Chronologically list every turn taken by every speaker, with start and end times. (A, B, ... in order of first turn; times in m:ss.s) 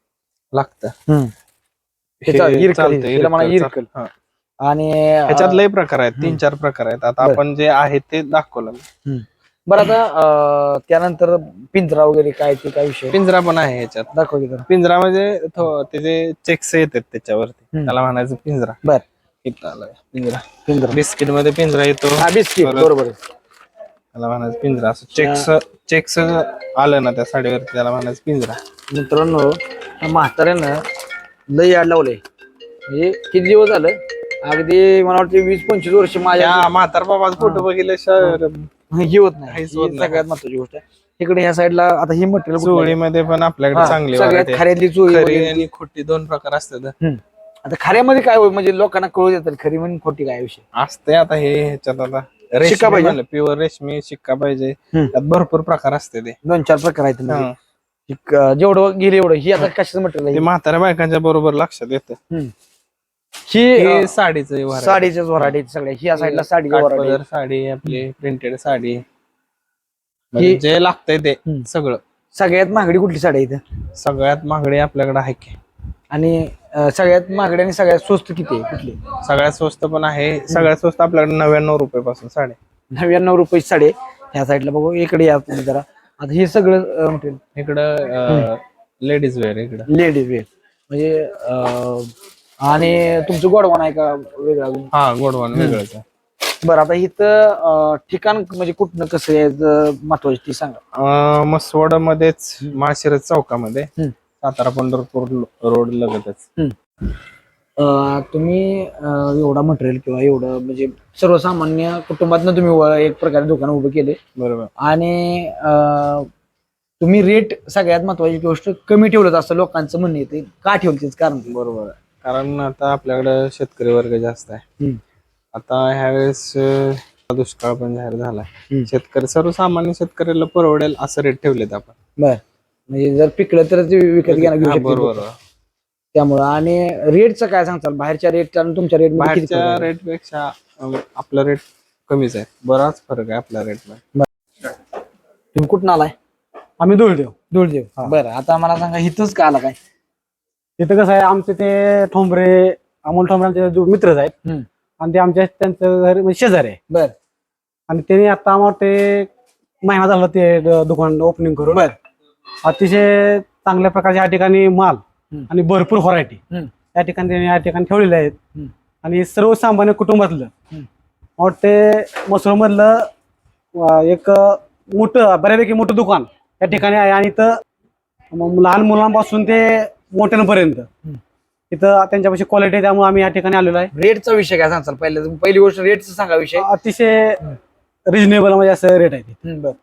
0:00.5-0:00.9 A
0:02.2-0:04.1 A
0:02.3-0:03.9 B
0:04.6-0:05.6 B
0:05.3-0:08.8 A
0:09.1-0:13.2 B
0:13.1-0:14.1 A
0:14.1-0:14.7 B
0:14.7-0:18.8 A
0:19.4-0:22.9 A
0:20.7-0:21.0 B
0:22.2-0:23.2 B
0:24.1-0:28.6 A
0:25.2-0:25.5 B
0:28.9-0:30.8 B
0:31.5-0:32.2 B
0:32.9-0:36.7 B
0:36.4-0:38.7 A
0:37.4-0:37.6 B
0:38.9-0:43.0 B
0:39.5-0:40.2 A
0:42.6-0:47.0 A
0:43.7-0:45.6 B
0:47.0-0:50.6 B
0:50.8-0:56.4 A
0:52.6-0:53.2 B
0:56.4-0:57.5 B
0:57.3-0:57.6 A
0:58.1-1:00.4 B
1:00.3-1:02.2 A
1:03.5-1:04.1 B
1:03.8-1:05.6 A
1:04.7-1:07.2 B
1:06.1-1:09.0 A
1:10.3-1:12.0 A
1:12.3-1:13.6 B
1:14.0-1:15.6 A
1:16.1-1:19.0 B
1:19.2-1:22.6 A
1:22.9-1:27.4 B
1:27.6-1:29.9 A
1:29.9-1:34.9 B
1:34.9-1:36.0 A
1:35.5-1:35.8 B
1:36.6-1:40.8 B
1:41.0-1:43.9 A
1:44.4-1:46.4 A
1:47.8-1:54.2 B
1:54.4-1:54.7 A
1:54.8-1:56.3 B
1:57.0-2:01.5 B
2:01.5-2:04.6 A
2:05.6-2:12.0 A
2:12.2-2:15.2 B
2:14.3-2:15.4 A
2:16.1-2:19.9 B
2:19.2-2:24.0 A
2:25.5-2:26.2 B
2:26.8-2:27.3 C
2:27.5-2:29.8 B
2:30.8-2:34.3 C
2:35.0-2:36.8 C
2:37.9-2:39.3 C
2:39.8-2:41.9 C
2:42.6-2:46.4 C
2:47.0-2:48.4 C
2:49.0-2:50.5 C
2:51.4-2:53.1 C
2:53.8-2:57.6 C
2:58.3-3:00.9 C
3:01.7-3:03.9 C
3:03.9-3:06.6 B
3:06.6-3:07.4 C
3:08.1-3:09.4 C
3:09.4-3:09.8 B